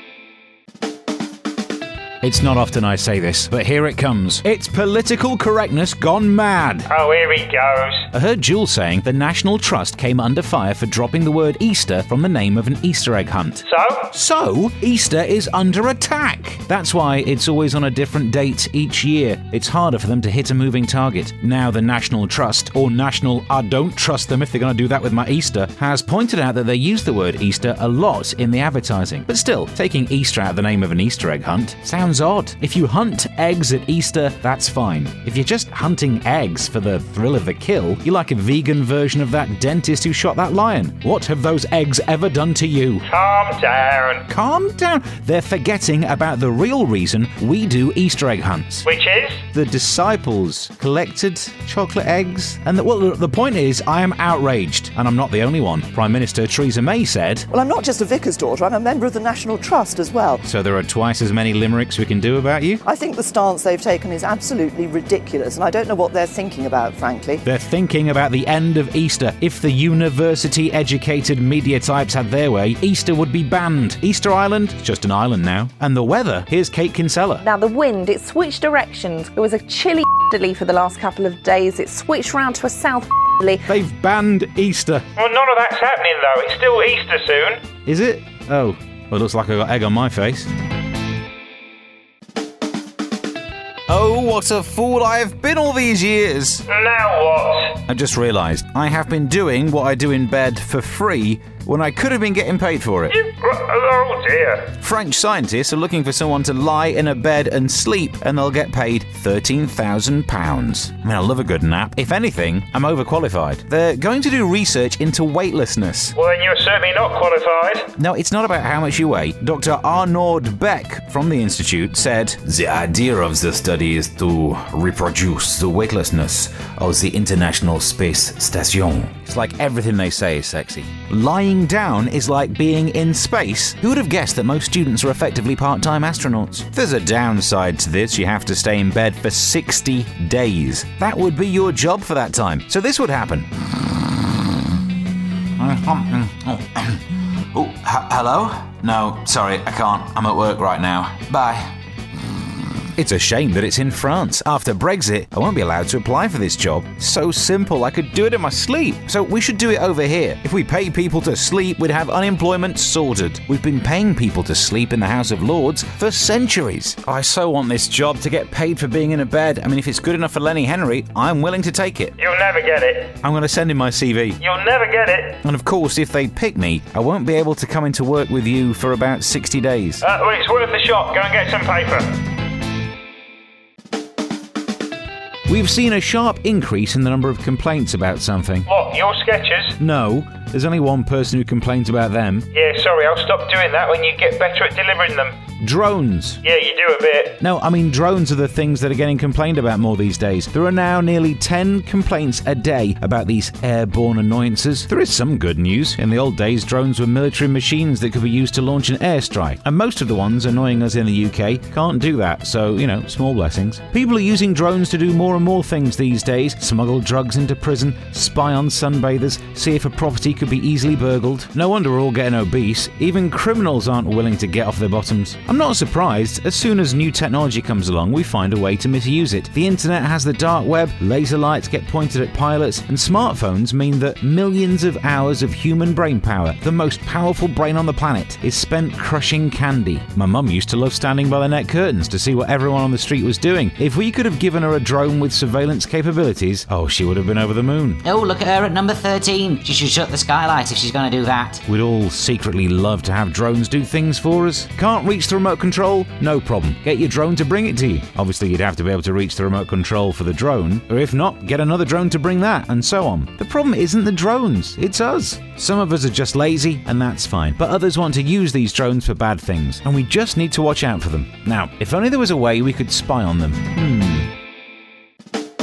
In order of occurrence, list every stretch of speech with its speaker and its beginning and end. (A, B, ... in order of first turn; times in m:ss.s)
0:02.2-0:06.9 A
0:06.9-0:08.1 B
0:08.1-0:43.0 A
0:13.7-0:14.1 B
0:43.1-0:44.2 B
0:44.3-0:48.9 A
0:48.9-0:49.4 B
0:49.5-0:57.5 A
0:57.5-1:00.4 C
1:00.4-1:02.8 A
1:02.8-1:07.4 C
1:07.4-1:17.4 A
1:17.4-1:23.6 D
1:23.7-1:25.1 A
1:25.2-1:27.6 B
1:27.8-1:30.5 A
1:33.9-1:36.6 A
1:36.7-1:37.8 B
1:37.9-1:43.1 A
1:43.1-1:44.7 B
1:44.8-1:56.1 A
1:56.2-1:57.9 B
1:58.0-2:23.5 A
2:25.6-2:27.0 A
2:27.5-2:31.7 A
2:33.0-2:52.1 A
2:52.2-2:53.2 B
2:53.2-2:54.4 A
2:54.4-2:55.4 B
2:55.4-3:00.0 A
3:00.0-3:02.1 B
3:05.5-3:08.7 A
3:08.7-3:09.8 B
3:09.8-3:12.5 A
3:12.5-3:15.4 B
3:15.6-3:16.4 A
3:16.4-3:17.4 B
3:17.4-4:08.0 A
4:08.0-4:11.6 E
4:11.7-4:34.3 A